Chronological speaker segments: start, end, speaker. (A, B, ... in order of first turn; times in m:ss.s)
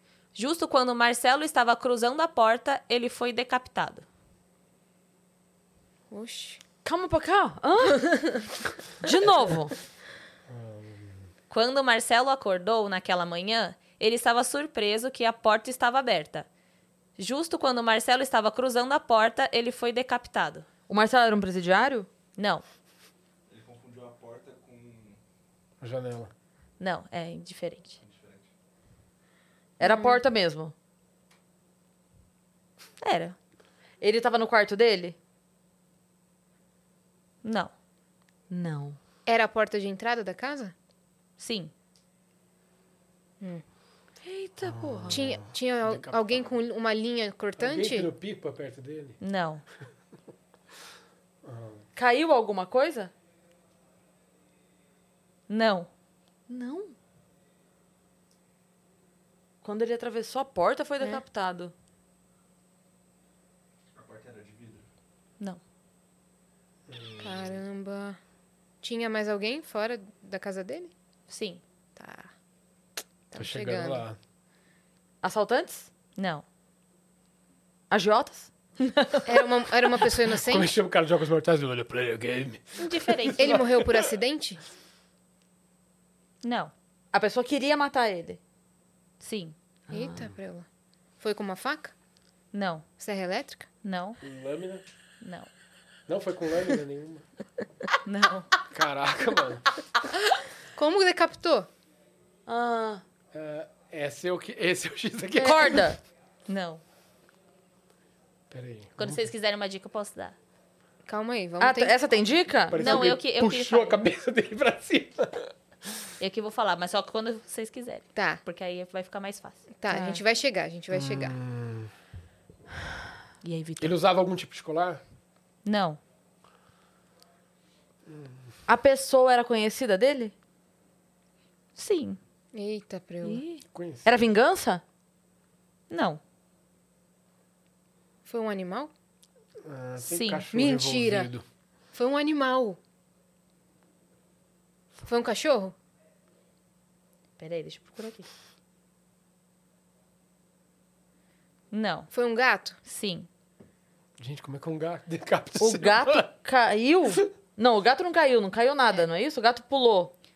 0:00.3-0:04.0 A
0:06.1-0:06.6 B
0:06.8-0:08.4 C
0:09.0-0:09.7 C
0:10.5-0:11.2 D
0:11.5-0:16.5 A
0:17.2-0:20.7 A
0:20.9-0:22.1 C
0:22.4-0:22.6 A
0:23.5-0:25.2 E
0:25.8-0:26.3 D
0:26.8-0:28.0 A
0:28.0-0:28.5 E
0:29.8-0:30.7 C
0:29.8-0:30.2 B
0:33.0-0:33.4 A
0:34.0-0:35.2 C
0:37.4-0:37.7 A
0:38.5-0:39.0 C
0:39.2-0:40.7 B
0:41.4-0:41.7 A
0:44.2-0:45.2 C
0:44.6-0:46.5 D
0:45.1-0:48.1 B
0:47.6-0:49.2 D
0:49.2-0:49.6 A
0:51.4-0:51.8 D
0:52.0-0:53.1 C
0:55.5-0:55.9 A
0:56.5-0:56.9 C
0:59.6-1:01.7 C
1:03.9-1:04.8 E
1:06.9-1:07.6 D
1:07.2-1:08.2 B
1:08.8-1:10.9 B
1:11.3-1:11.6 A
1:12.0-1:12.3 B
1:13.3-1:14.0 B
1:13.4-1:14.2 D
1:15.2-1:15.9 C
1:16.2-1:16.4 A
1:17.9-1:18.5 C
1:18.8-1:19.5 A
1:19.2-1:20.7 B
1:20.3-1:24.1 D
1:22.8-1:23.6 A
1:23.4-1:24.6 B
1:26.4-1:26.7 A
1:27.1-1:28.4 C
1:29.2-1:29.6 A
1:29.9-1:30.7 B
1:31.2-1:31.9 B
1:32.5-1:32.8 A
1:33.0-1:33.7 B
1:33.8-1:34.2 A
1:34.2-1:34.8 D
1:35.2-1:35.5 A
1:36.1-1:37.2 D
1:38.0-1:38.5 A
1:38.7-1:39.7 D
1:40.7-1:41.7 B
1:42.5-1:43.0 C
1:43.3-1:45.9 D
1:45.4-1:46.0 C
1:46.5-1:46.8 A
1:48.5-1:49.2 D
1:49.0-1:50.4 A
1:51.0-1:52.0 B
1:51.6-1:53.1 C
1:52.7-1:55.5 D
1:52.8-1:54.0 A
1:56.2-1:59.6 A
1:58.1-1:58.4 B
1:59.8-2:01.4 B
1:59.9-2:00.2 C
2:00.9-2:01.9 D
2:03.4-2:03.9 A
2:03.8-2:05.0 D
2:05.6-2:06.0 A
2:08.1-2:08.3 D
2:08.7-2:10.3 C
2:11.8-2:12.2 A
2:12.5-2:13.4 B
2:13.2-2:13.6 A
2:13.7-2:14.1 D
2:14.0-2:14.8 C
2:15.9-2:16.2 A
2:18.2-2:18.9 B
2:19.6-2:21.4 D
2:20.0-2:20.4 A
2:20.5-2:21.3 B
2:21.9-2:22.8 B
2:25.0-2:25.7 B
2:27.4-2:28.3 A
2:31.7-2:32.1 A
2:32.1-2:32.8 B
2:32.8-2:33.3 A
2:34.2-2:36.2 D
2:35.6-2:40.1 C